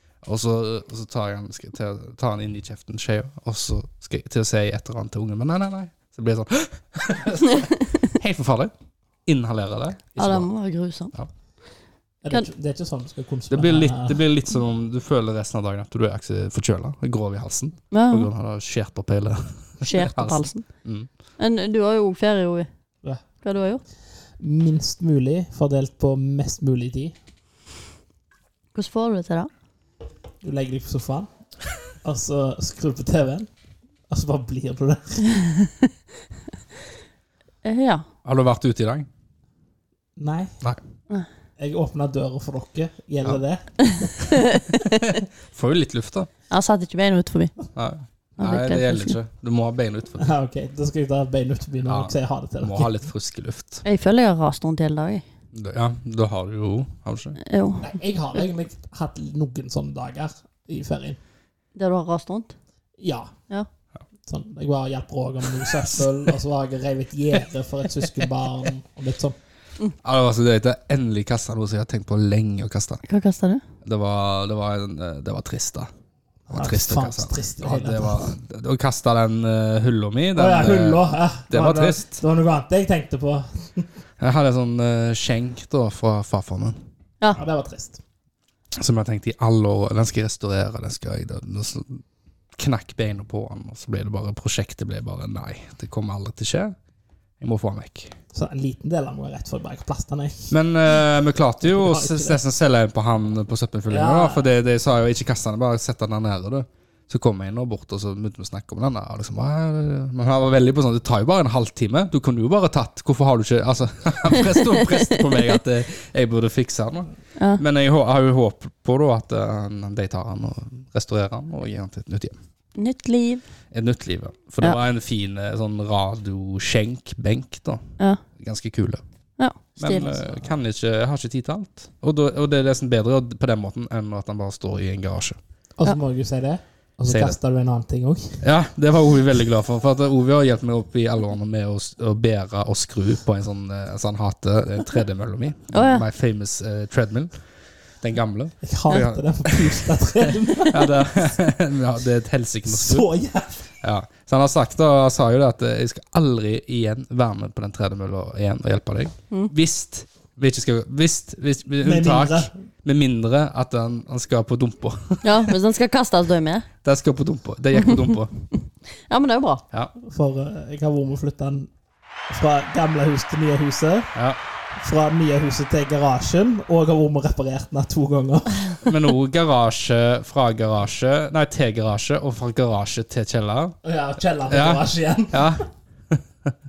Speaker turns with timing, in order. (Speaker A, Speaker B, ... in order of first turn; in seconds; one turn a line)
Speaker A: 0.2-8.7
Speaker A: 9.2-10.5
Speaker B: 10.2-11.1
Speaker C: 12.2-14.2
Speaker A: 13.5-21.1
Speaker B: 17.9-18.3
Speaker B: 19.8-20.6
Speaker B: 21.4-22.7
Speaker B: 23.4-23.8
Speaker C: 24.4-27.1
Speaker B: 28.7-29.5
Speaker C: 30.4-31.3
Speaker C: 32.0-33.5
Speaker C: 34.1-35.2
Speaker B: 37.6-38.0
Speaker A: 38.2-39.1
Speaker C: 40.2-40.5
Speaker C: 41.6-44.2
Speaker B: 43.9-45.2
Speaker A: 45.0-46.3
Speaker B: 46.5-47.5
Speaker A: 47.7-50.3
Speaker B: 48.4-49.1
Speaker C: 50.2-52.9
Speaker A: 51.9-53.8
Speaker B: 53.8-55.2
Speaker A: 55.5-57.4
Speaker B: 57.4-57.9
Speaker C: 57.8-61.2
Speaker B: 61.7-62.5
Speaker C: 63.0-63.3
Speaker C: 64.2-69.4
Speaker A: 70.0-73.0
Speaker B: 73.1-73.6
Speaker A: 73.8-75.9
Speaker C: 76.5-78.3
Speaker A: 76.5-82.2
Speaker C: 80.3-83.9
Speaker A: 84.2-86.8
Speaker C: 87.3-88.0
Speaker A: 88.8-92.0
Speaker A: 92.5-96.7
Speaker A: 97.4-98.1
Speaker C: 98.3-100.5
Speaker A: 100.5-122.3
Speaker C: 101.6-102.4
Speaker C: 103.9-104.5
Speaker B: 114.8-115.2
Speaker B: 117.4-117.6
Speaker B: 122.8-123.4
Speaker A: 123.7-129.0
Speaker B: 129.4-130.1
Speaker A: 129.8-135.4
Speaker C: 129.9-130.5
Speaker C: 135.8-138.4
Speaker A: 137.1-137.3
Speaker A: 138.4-147.3
Speaker B: 145.7-146.1
Speaker A: 148.0-149.9
Speaker C: 148.6-151.1
Speaker A: 150.7-153.1
Speaker C: 152.7-153.6
Speaker A: 153.8-165.5
Speaker C: 161.8-162.5
Speaker B: 165.2-166.7
Speaker A: 166.8-168.3
Speaker B: 169.1-169.6
Speaker C: 170.0-171.7
Speaker C: 172.3-174.1
Speaker C: 174.8-178.8
Speaker A: 178.8-183.8
Speaker C: 183.8-185.6
Speaker A: 184.5-186.5